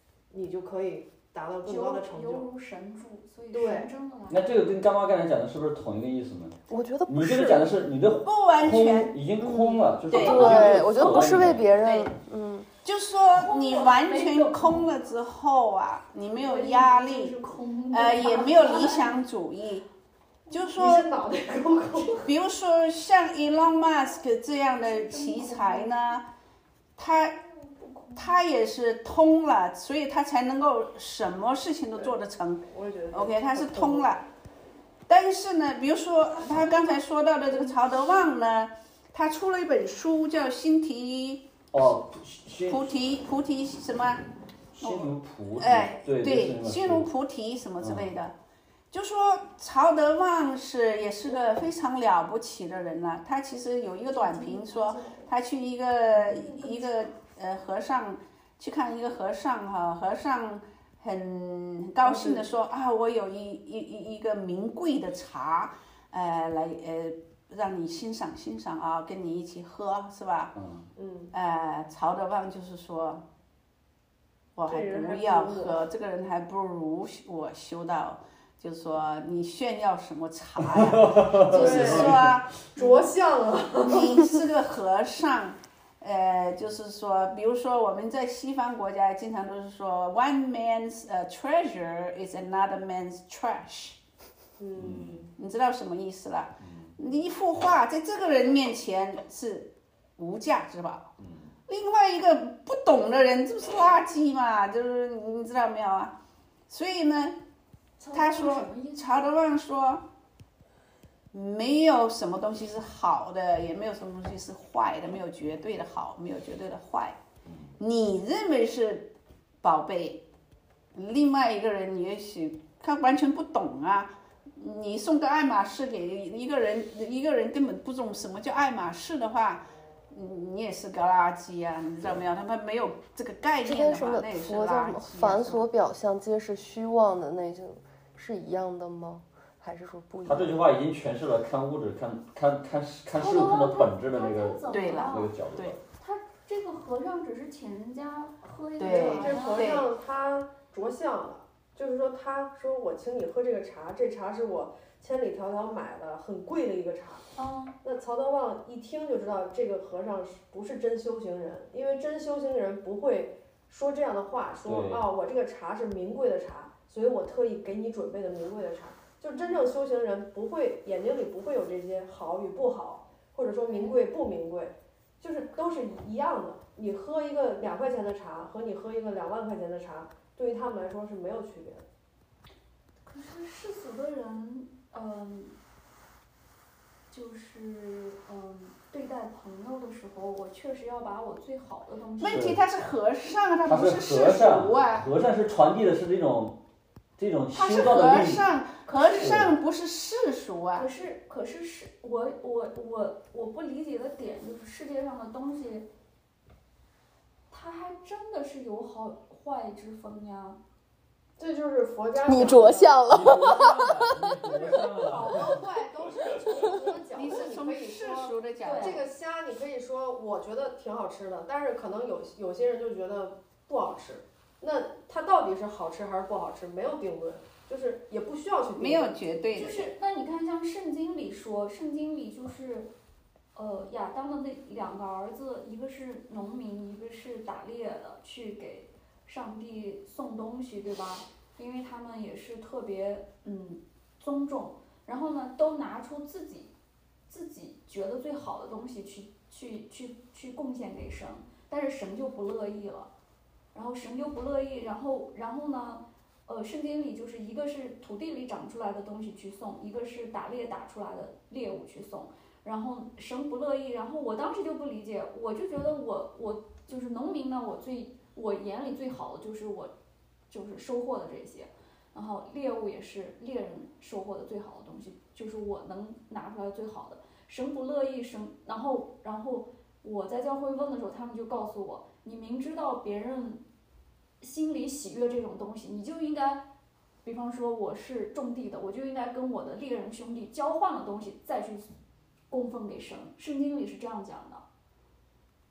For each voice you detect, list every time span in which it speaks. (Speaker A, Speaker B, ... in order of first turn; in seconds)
Speaker A: 0.3-2.5, 3.5-3.9, 20.8-22.3, 32.7-34.1, 62.0-62.5, 71.0-71.3, 74.7-75.8, 81.5-82.2, 82.8-84.2, 94.6-95.3, 148.9-157.3, 157.8-181.8, 211.4-213.0, 214.6-229.1
Speaker B: 1.6-4.4, 10.2-10.7, 13.3-14.9, 16.4-19.2, 24.8-26.1, 27.3-28.4, 54.1-55.3, 56.1-57.0, 108.0-109.3, 143.1-145.3, 145.9-149.8, 157.3-157.8, 169.3-169.7, 173.7-174.0, 183.0-185.6, 187.1-192.6, 198.9-199.5, 200.8-205.9, 207.5-210.6, 218.6-219.0, 229.6-232.9, 233.6-246.7, 247.3-253.1, 253.7-269.9, 270.5-283.6, 284.4-286.6, 287.2-291.9, 292.5-294.6
Speaker C: 4.3-6.6, 7.1-11.7, 41.7-42.9, 44.7-47.1, 47.8-48.1, 70.5-70.9, 80.9-82.4, 94.8-95.3, 96.6-96.9, 101.2-101.5, 140.3-145.8, 164.7-165.1, 192.3-192.6, 193.7-196.6, 197.2-198.5, 199.2-199.5, 213.1-216.3
Speaker D: 6.7-7.8, 9.4-12.7, 133.6-140.6, 212.2-214.3
Speaker E: 8.2-9.2, 10.1-12.1, 12.8-17.4, 17.9-19.9, 20.5-21.1, 22.2-26.3, 27.0-27.4, 28.1-34.2, 35.1-41.5, 42.7-44.2, 44.8-48.4, 48.9-70.5, 71.3-73.2, 74.6-83.0, 83.8-94.0, 95.4-101.1, 101.7-106.2, 106.7-107.4, 108.1-110.0, 111.3-117.2, 117.8-120.2, 120.9-135.7, 144.7-145.8, 148.8-149.9, 192.2-195.1, 197.5-200.9, 217.1-219.0, 228.8-229.9